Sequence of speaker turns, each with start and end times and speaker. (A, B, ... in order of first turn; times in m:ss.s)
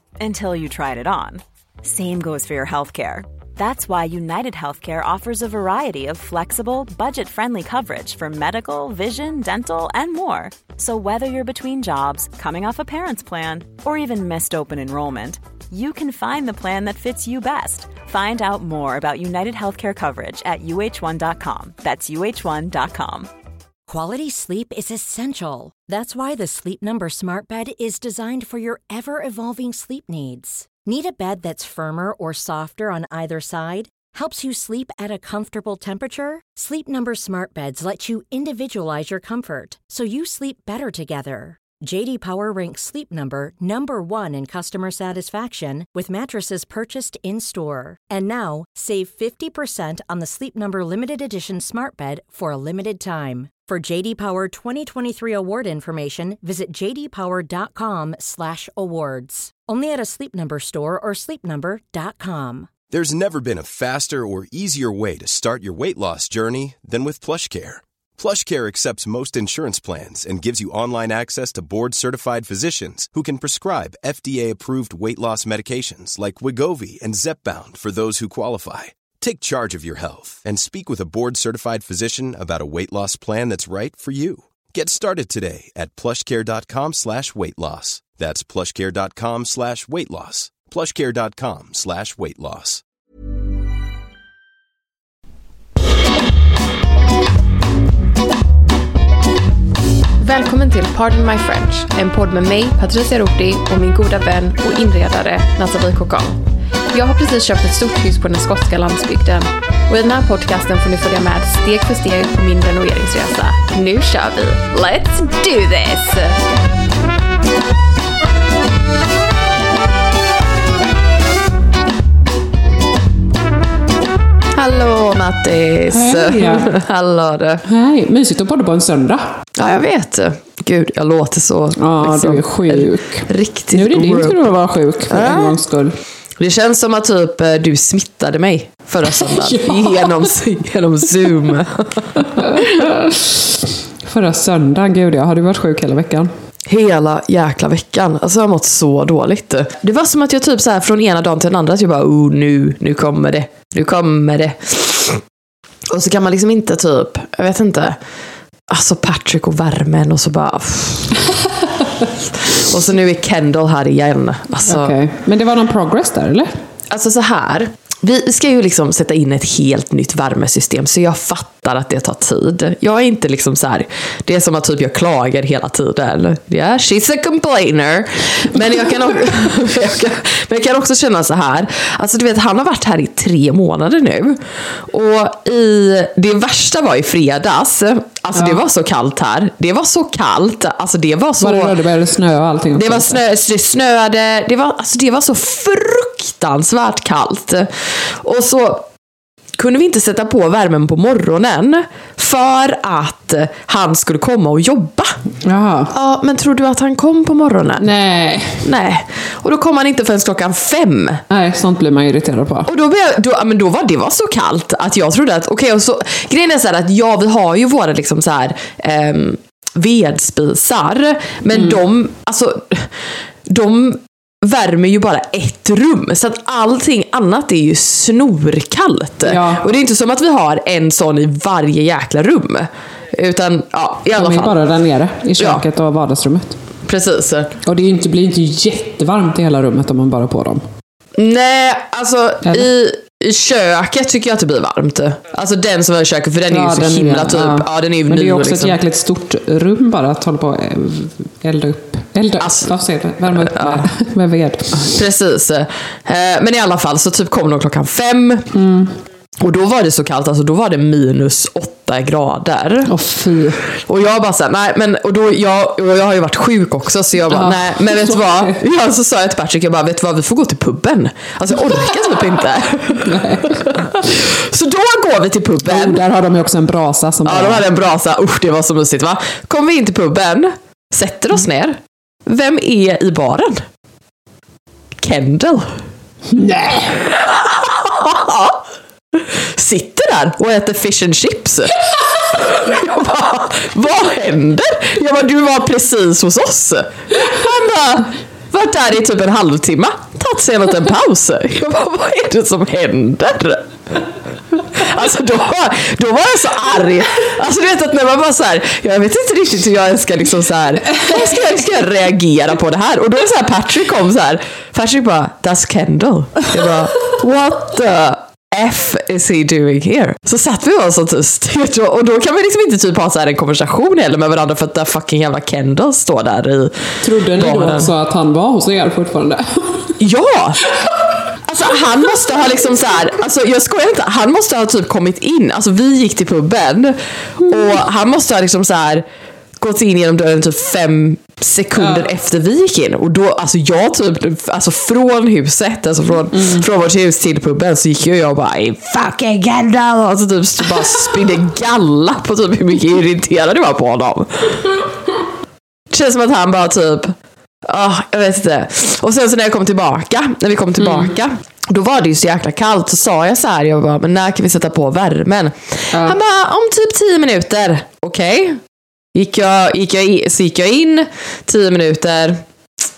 0:00.2-0:23.3 A
0:23.9-1:02.7 B
1:02.9-1:32.8 C
1:40.2-1:56.4 D
2:04.6-2:07.6 D
2:05.9-2:06.7 E
2:07.6-2:09.4 E
2:09.6-2:14.5 D
2:11.8-2:16.0 E
2:15.1-2:15.6 D
2:16.4-2:22.8 D
2:19.1-2:20.3 E
2:22.4-2:26.3 E
2:26.7-2:35.2 D
2:35.9-2:38.0 D
2:38.7-2:41.1 D
2:42.6-2:45.0 D
2:44.6-2:46.5 E
2:46.9-3:11.8 D
3:11.4-3:13.2 E
3:12.7-3:18.9 D
3:19.6-3:25.2 D
3:25.4-3:25.9 E
3:25.9-3:27.9 D
3:27.8-3:28.7 E
3:28.6-3:31.2 D
3:31.3-3:32.7 E
3:32.7-3:54.6 D
3:41.5-3:41.8 E
3:49.2-3:49.6 E
3:54.1-3:56.6 E
3:55.4-3:55.6 D
3:56.8-3:57.5 D
3:57.6-4:00.6 E
4:01.2-4:08.8 D
4:02.4-4:02.7 E
4:06.5-4:14.9 E
4:12.4-4:12.7 D
4:13.3-4:13.9 D
4:14.8-4:18.5 D
4:18.5-4:18.9 E
4:19.4-4:22.9 D
4:22.8-4:23.6 E
4:23.8-4:36.0 D
4:27.3-4:28.6 E
4:32.9-4:34.0 E
4:35.6-4:37.7 E
4:37.2-4:43.6 D
4:45.0-4:45.8 D
4:46.3-4:47.1 E
4:47.1-4:48.6 D
4:49.1-5:03.7 D
5:04.6-5:27.9 D
5:10.9-5:11.3 E
5:27.0-5:30.0 E
5:30.0-5:30.6 D
5:31.5-5:39.0 D
5:39.6-5:54.8 D
5:41.8-5:42.1 E
5:46.3-5:46.7 E
5:55.9-6:08.6 D
6:05.9-6:06.2 E
6:09.1-6:12.4 D